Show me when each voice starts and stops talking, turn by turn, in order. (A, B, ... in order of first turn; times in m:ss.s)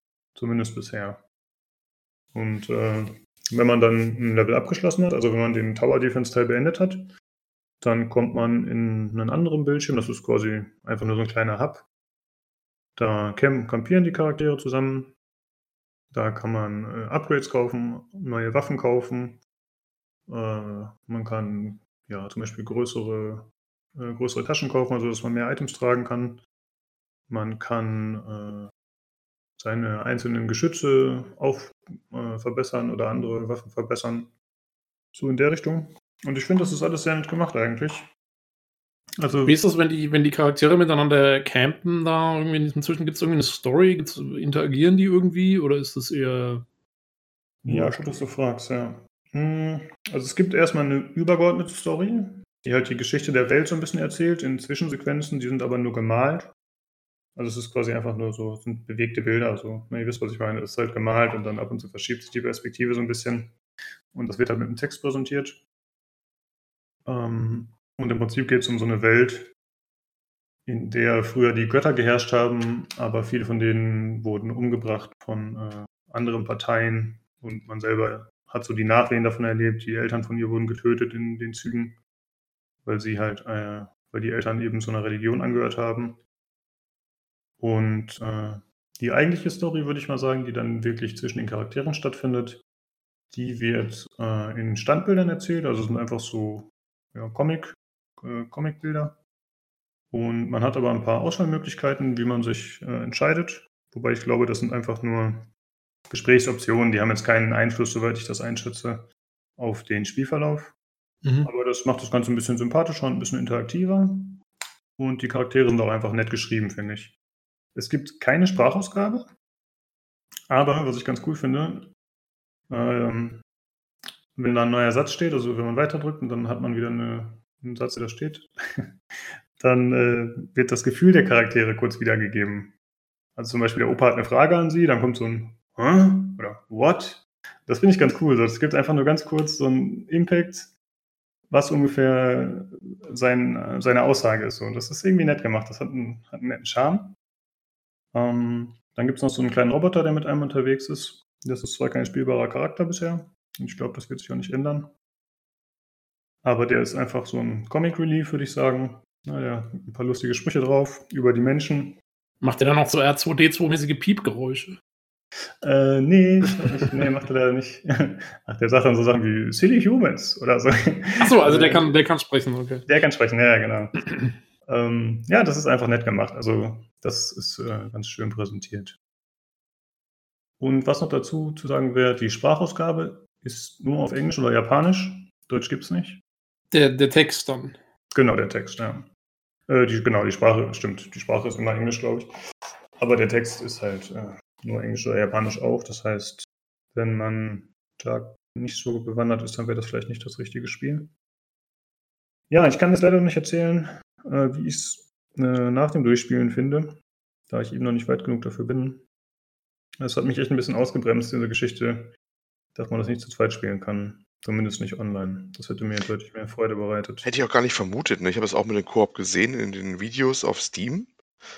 0:00.4-0:01.2 A
0:02.3-0:07.1 A
0:07.8-0:11.8 A
0:13.0-0:15.1 A
0:16.1-0:19.4 A
0:20.3-0:26.4 A
0:27.3-0:28.7 A
0:29.6-0:34.3 A
0:35.1-0:38.1 A
0:39.2-0:39.6 A
0:39.4-0:46.6 B
0:47.6-0:48.2 B
0:47.6-0:56.5 A
0:57.4-1:03.5 A
1:04.1-1:05.6 A
1:07.1-1:09.5 A
1:10.7-1:22.0 A
1:22.8-1:26.2 A
1:27.6-1:32.6 A
1:33.3-1:39.2 A
1:40.1-1:45.5 A
1:46.1-1:50.7 A
1:51.2-1:51.5 B
1:51.4-1:54.4 A
1:55.0-1:57.2 A
1:57.8-1:59.3 A
2:00.5-2:01.9 A
2:02.7-2:03.4 A
2:04.4-2:08.9 A
2:09.6-2:12.7 A
2:13.4-2:20.7 A
2:21.5-2:27.2 A
2:28.1-2:34.9 A
2:36.4-2:42.0 A
2:42.4-2:44.8 B
2:45.6-2:51.9 A
2:51.2-2:52.8 B
2:52.9-2:54.0 A
2:54.6-2:59.0 A
3:00.6-3:06.2 A
3:06.7-3:07.8 B
3:08.1-3:09.1 A
3:09.7-3:12.3 A
3:13.0-3:21.1 A
3:22.5-3:29.0 A
3:30.0-3:32.2 A
3:32.8-3:37.3 A
3:37.2-3:41.2 C